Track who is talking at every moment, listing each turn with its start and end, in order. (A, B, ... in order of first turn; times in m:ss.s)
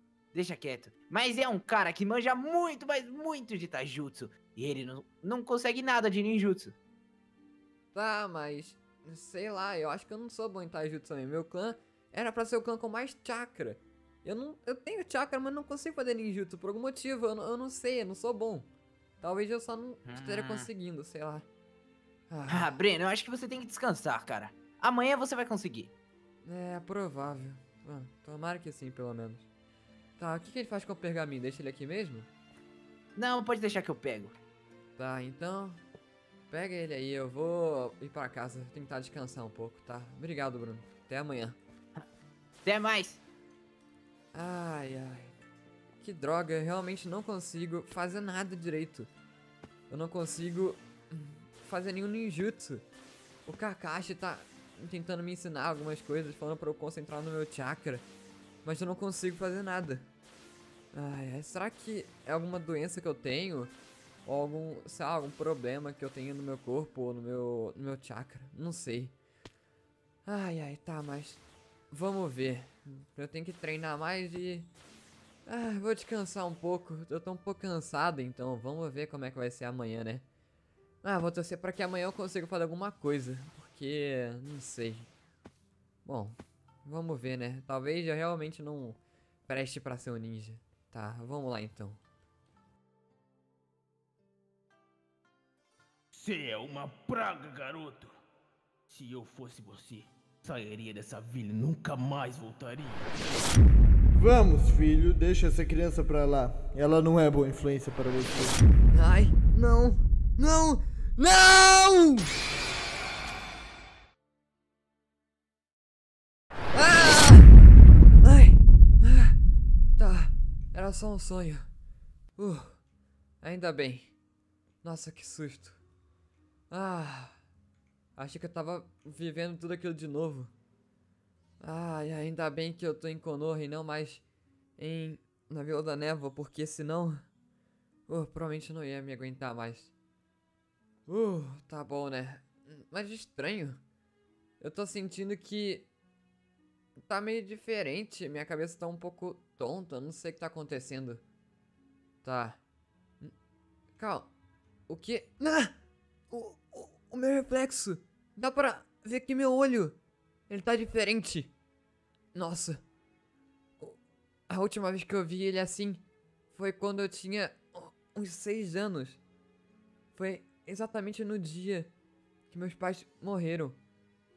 0:00.3-0:06.8 A
0:07.9-0:18.7 B
0:19.2-0:21.4 B
0:20.0-0:20.7 A
0:22.3-0:22.7 B
0:22.5-0:25.9 A
0:26.4-0:29.4 B
0:30.2-0:32.3 B
0:33.2-0:34.3 A
0:35.0-0:35.8 B
0:36.5-0:41.6 B
0:42.6-0:43.2 A
0:44.3-0:45.3 B
0:46.0-0:49.1 B
0:49.9-0:52.8 B
0:53.4-0:58.0 B
0:58.6-1:00.1 B
1:00.9-1:03.7 B
1:04.2-1:09.1 B
1:10.2-1:14.7 B
1:15.4-1:20.2 B
1:21.0-1:25.1 B
1:26.0-1:32.0 B
1:36.1-1:38.2 C
1:38.9-1:43.1 C
1:44.1-1:48.6 D
1:48.9-1:52.3 B
1:56.7-1:57.6 B
1:58.2-1:59.3 B
2:00.0-2:01.7 B
2:02.4-2:02.8 B
2:03.4-2:04.1 B
2:04.8-2:05.8 B
2:06.7-2:07.4 B
2:08.2-2:10.5 B
2:11.6-2:14.2 B
2:14.8-2:17.2 B
2:18.1-2:19.9 B
2:21.1-2:23.8 B
2:24.6-2:25.9 B
2:27.0-2:31.2 B
2:32.2-2:32.6 B
2:34.0-2:34.3 B
2:34.9-2:35.7 B
2:36.3-2:40.0 B
2:40.5-2:41.5 B
2:42.3-2:42.8 B
2:44.5-2:49.2 B
2:50.1-2:51.9 B
2:52.5-2:53.8 B